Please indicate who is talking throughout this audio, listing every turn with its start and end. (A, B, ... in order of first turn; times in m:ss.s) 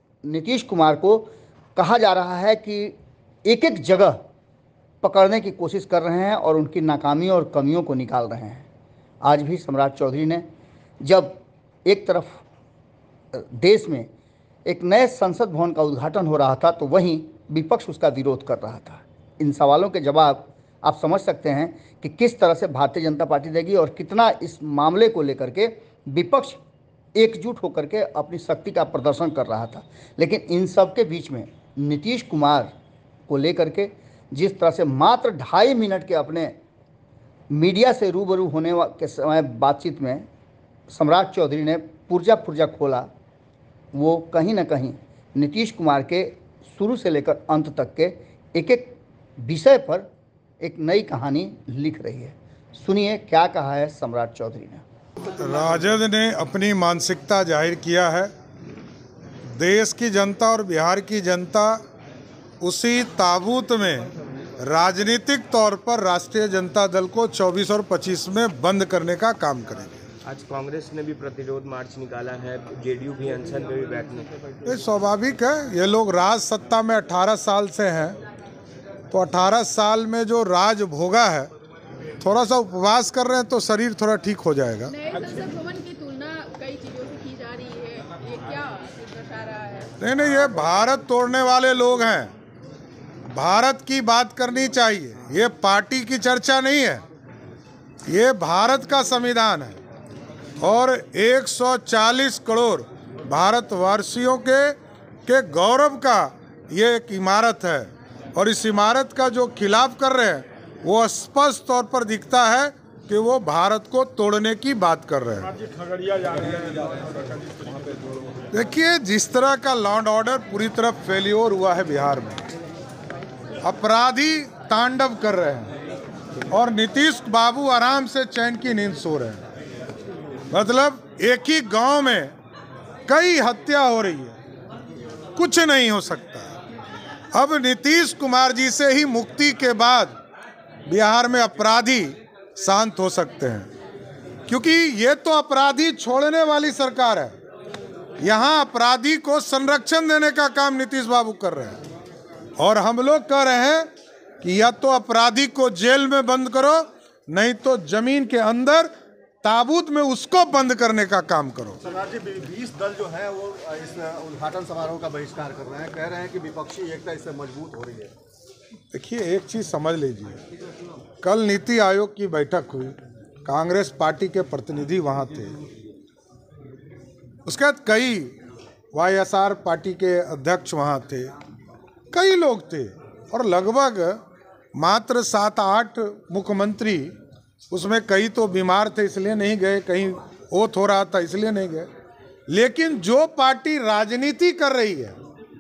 0:00.2-0:04.2 A
0:05.0-0:08.7 A
0:09.2-0:10.4 A
0:11.0-0:12.4 A
0:13.3-0:14.1 A
0:14.7-0:26.6 A
0:27.2-0:32.7 A
0:33.3-0:36.5 A
0:37.5-0:40.3 A
0:40.9-0:43.1 A
0:43.9-0:50.1 A
0:50.6-0:54.8 A
0:55.4-0:58.3 B
0:59.6-1:01.8 B
1:02.6-1:04.1 B
1:04.6-1:10.0 B
1:10.2-1:14.3 C
1:14.7-1:18.2 B
1:19.1-1:21.5 B
1:22.2-1:25.0 B
1:24.9-1:29.9 D
1:30.0-1:32.3 B
1:33.3-1:37.0 B
1:38.1-1:39.8 B
1:40.6-1:44.8 B
1:45.3-1:55.6 B
1:58.5-2:02.4 B
2:03.6-2:05.7 B
2:06.5-2:09.4 B
2:10.5-2:12.4 B
2:13.1-2:14.4 B
2:15.4-2:16.5 B
2:17.3-2:20.2 B
2:20.9-2:23.7 B
2:24.5-2:27.4 B
2:28.2-2:31.8 B
2:32.6-2:33.9 B
2:34.4-2:38.9 B
2:39.4-2:41.8 B
2:41.8-2:48.1 E
2:48.9-2:50.4 B
2:51.2-2:55.6 B
2:57.5-2:58.3 B
2:58.9-3:01.3 B
3:02.1-3:04.2 B
3:04.8-3:07.1 B
3:07.7-3:11.9 B
3:12.5-3:15.2 B